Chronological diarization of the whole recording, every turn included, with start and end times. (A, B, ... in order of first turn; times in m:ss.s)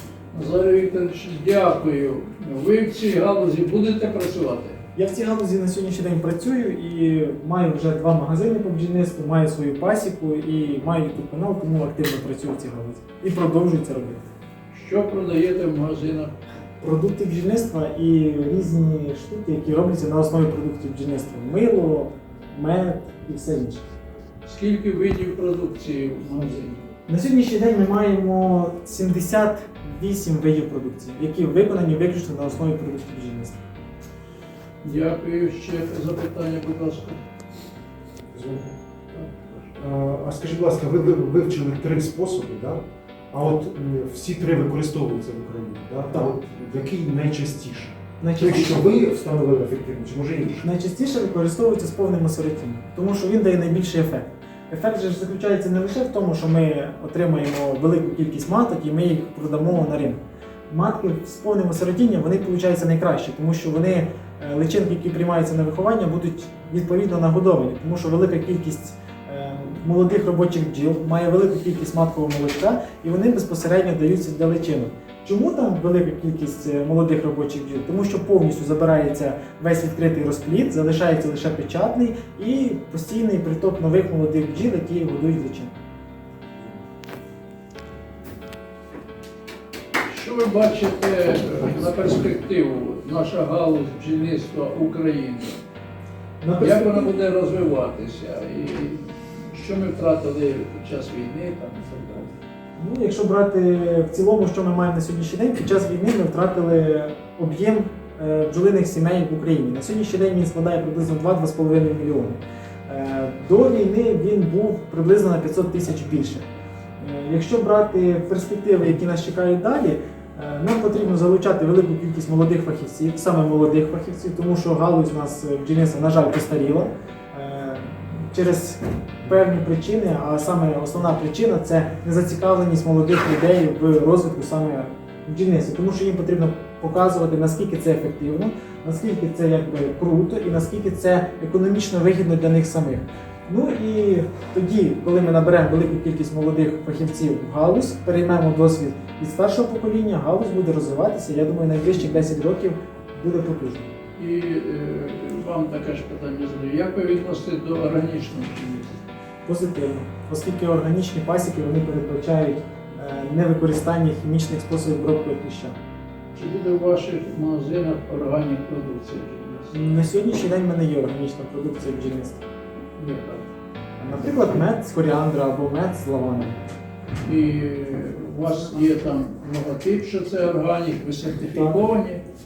0:00.3-0:04.8 A
0:04.9-0:14.3 B
0:14.7-0:16.4 A
0:16.8-0:23.8 B
0:24.4-0:26.9 A
0:27.1-0:33.6 B
0:34.8-0:37.2 A
0:38.3-0:38.8 C
0:39.8-0:50.7 C
0:48.2-0:48.8 B
0:50.6-1:25.7 B
1:30.1-1:35.6 A
1:36.4-1:37.1 B
1:36.6-1:42.4 A
1:42.8-1:56.4 B
1:57.0-2:33.9 B
2:34.2-2:38.9 A
2:39.4-2:45.8 B
2:46.3-2:49.8 A
2:49.7-2:52.4 B
2:53.0-2:53.4 A
2:54.0-2:56.6 B
2:57.2-3:02.2 A
3:01.5-3:01.8 B